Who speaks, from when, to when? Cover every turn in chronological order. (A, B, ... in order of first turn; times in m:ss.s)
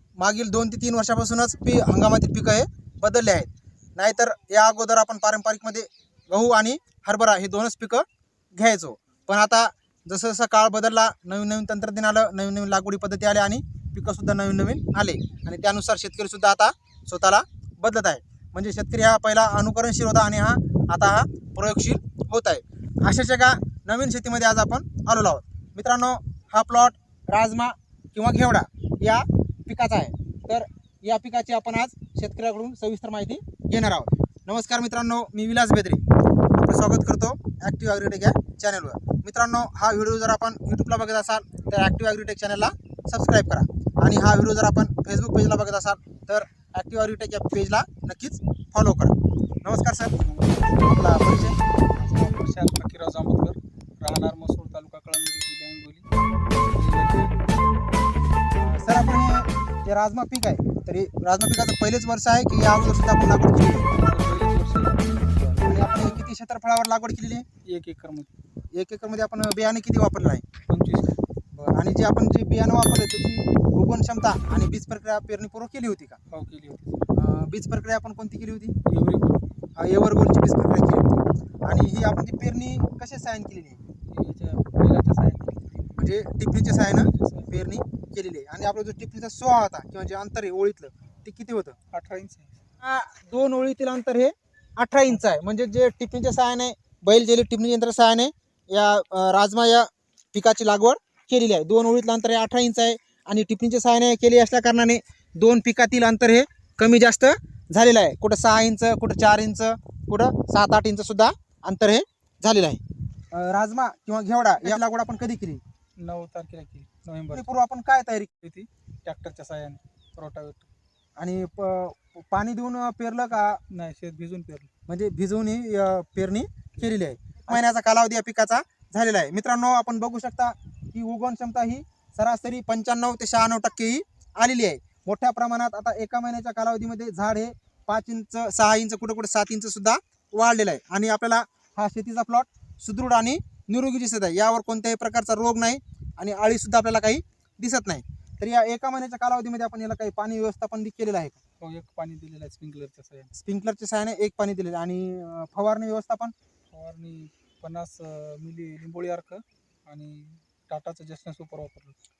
0:00.2-0:50.2 A
0:50.2-0:51.0 B
0:50.8-0:51.6 A
0:51.9-0:56.1 B
0:56.6-0:57.6 B
0:58.7-1:03.9 A
1:03.9-1:06.2 B
1:05.6-1:07.4 A
1:07.6-1:08.3 B
1:08.7-1:10.5 A
1:10.7-1:11.7 B
1:11.7-1:16.2 A
1:16.3-1:17.1 B
1:17.1-1:18.8 A
1:18.8-1:19.5 B
1:19.8-1:23.8 A
1:24.1-1:26.0 B
1:26.0-1:31.8 A
1:26.8-1:27.5 B
1:31.9-1:32.6 B
1:32.8-1:55.6 A
1:56.0-1:57.5 B
1:57.3-1:58.3 A
1:58.4-2:00.7 B
2:01.2-2:03.6 A
2:03.7-2:04.7 B
2:04.9-2:31.4 A
2:31.6-2:33.3 B
2:33.3-2:36.3 A
2:36.7-2:42.0 B